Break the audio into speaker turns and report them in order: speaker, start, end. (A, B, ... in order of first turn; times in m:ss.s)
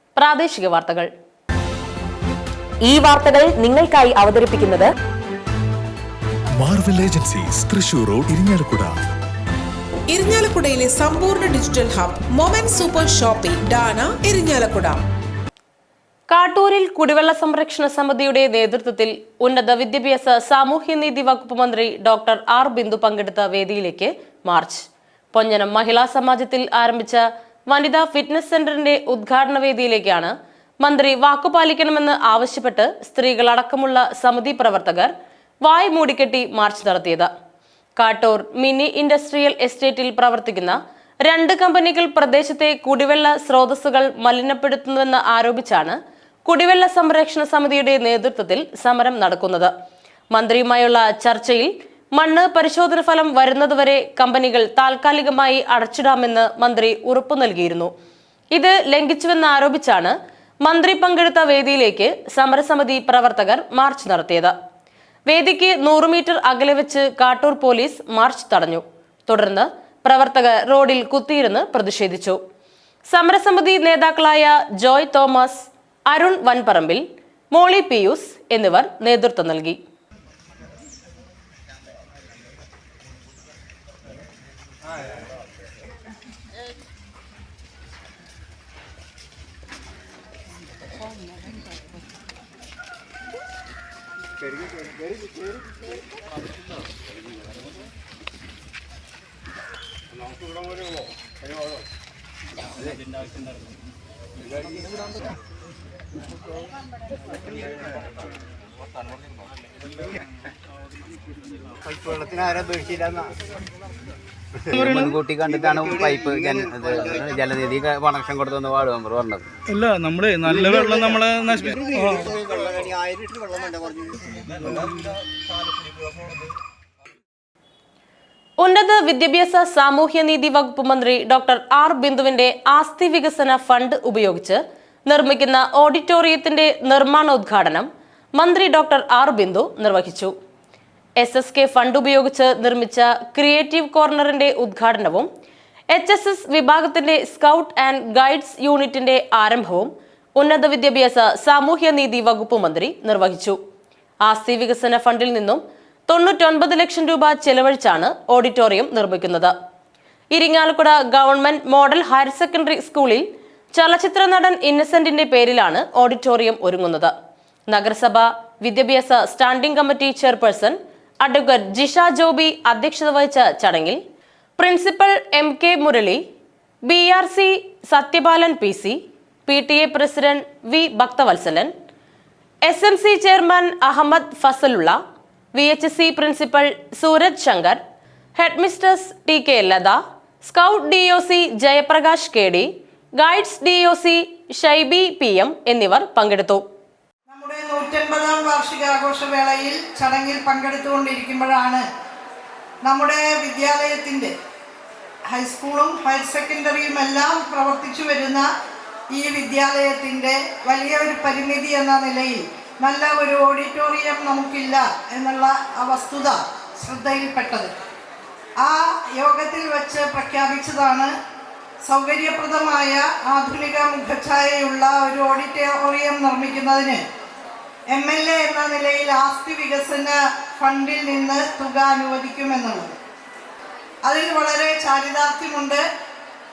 0:00.2-0:01.1 A
0:02.8-0:04.9 B
0:06.6-0:09.0 C
0:10.1-0:15.0 D
0:16.3-0:35.1 A
0:35.6-0:37.3 A
0:38.0-0:49.7 A
0:50.3-0:57.9 A
0:58.5-1:04.5 A
1:05.3-1:12.4 A
1:13.1-1:19.8 A
1:54.7-1:55.2 E
1:54.9-1:59.5 F
1:59.7-2:02.3 E
2:08.6-2:20.3 A
2:21.2-2:25.3 A
2:25.9-2:33.6 A
2:34.2-2:39.5 A
2:40.3-2:47.1 A
2:47.7-2:54.0 A
2:54.6-2:56.2 A
2:56.8-3:01.7 A
3:02.6-3:05.0 A
3:05.5-3:07.8 A
3:08.4-3:16.6 A
3:17.3-3:21.8 G
3:22.8-3:24.3 G
3:25.3-3:28.4 G
3:29.1-3:37.7 G
3:38.6-3:41.1 G
3:41.8-3:47.0 G
3:47.9-3:52.9 G
3:54.0-3:55.8 G